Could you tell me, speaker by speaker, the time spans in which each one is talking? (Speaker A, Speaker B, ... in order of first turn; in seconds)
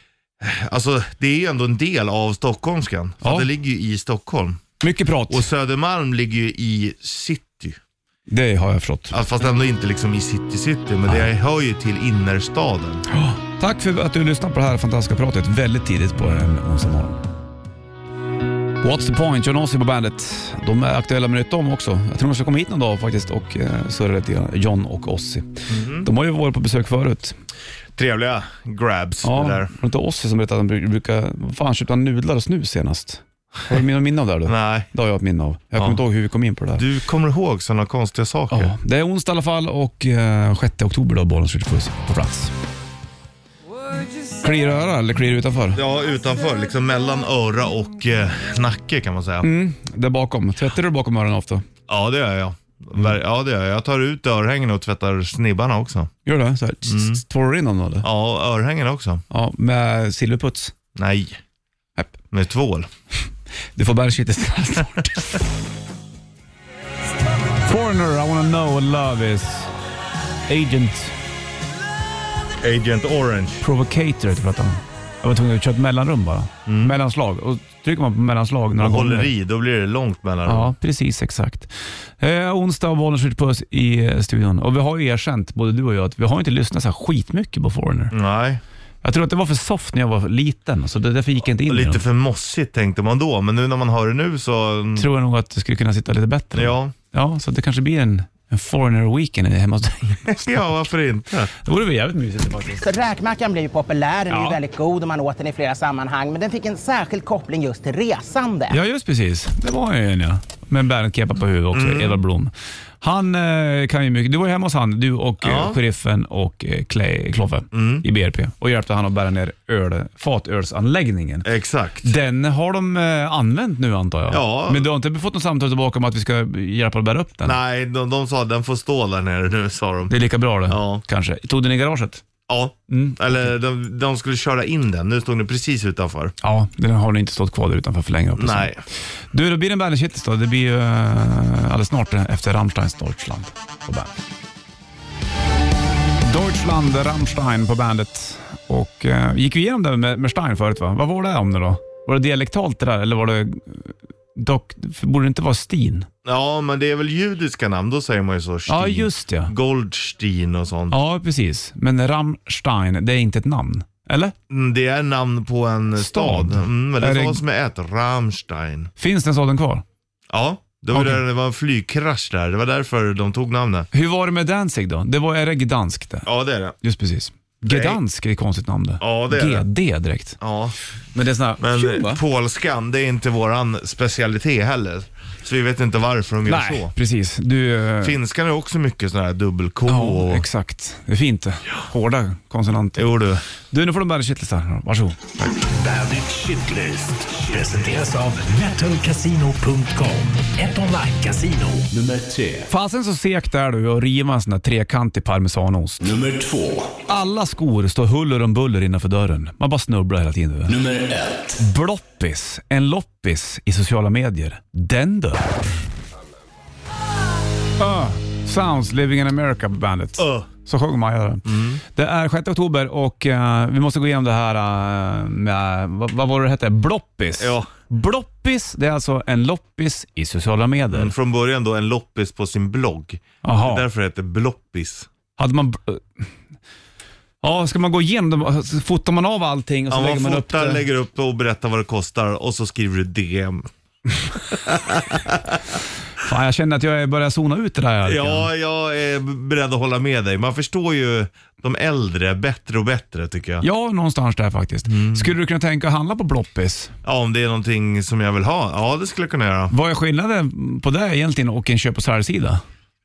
Speaker A: 0.4-4.6, 5.3-7.8, 9.1-13.0, 25.7-26.1, 27.9-29.7, 34.5-34.9, 36.8-38.7, 45.7-49.5, 51.9-56.1, 56.9-57.2, 58.0-59.2, 61.0-61.4, 62.3-62.9, 72.6-73.6, 76.7-77.0, 78.8-80.7, 88.1-88.6, 91.7-95.1, 96.5-96.9, 100.3-101.5, 111.7-112.2, 115.4-115.8, 117.7-118.0, 121.4-122.1, 124.3-124.9, 127.4-130.1, 130.7-131.0, 132.5-136.3, 138.4-138.8, 156.2-161.0, 164.5-168.9, 170.3-173.9, 176.2-176.8, 177.7-178.0, 179.0-179.7, 180.4-180.7, 181.6-186.9, 188.0-190.4, 192.9-193.4, 220.2-220.5, 221.4-221.8, 227.4-227.7, 230.9-235.1, 239.9-243.7, 244.7-245.6, 248.0-253.6, 254.8-255.3, 257.0-259.7
Speaker B: 3.2-3.5, 4.8-5.5, 8.3-9.2, 13.1-17.2, 18.8-27.4, 29.2-36.9, 38.5-42.5, 44.3-45.8, 49.4-51.6, 56.2-58.1, 59.3-60.7, 63.7-65.4, 67.6-69.7, 70.5-71.2, 73.6-79.3, 80.5-88.1, 89.0-92.0, 95.0-100.6, 101.5-102.8, 104.3-104.5, 108.7-121.5, 122.0-127.6, 130.1-132.2, 132.9-133.5, 136.4-138.7, 139.3-144.2, 146.2-156.1, 158.7-159.5, 160.9-164.3, 166.0-167.4, 169.0-169.8, 170.9-171.2, 173.9-176.3, 176.8-180.4, 181.1-182.2, 186.4-188.2, 189.9-193.1, 193.7-195.3, 202.7-206.0, 207.1-210.8, 211.6-215.5, 217.8-231.1, 233.4-233.8, 235.4-236.0, 237.4-240.8, 246.2-248.5, 253.6-256.9, 259.7-262.6
Speaker C: 102.8-108.8
Speaker D: 195.5-202.7, 206.0-206.9, 210.7-211.6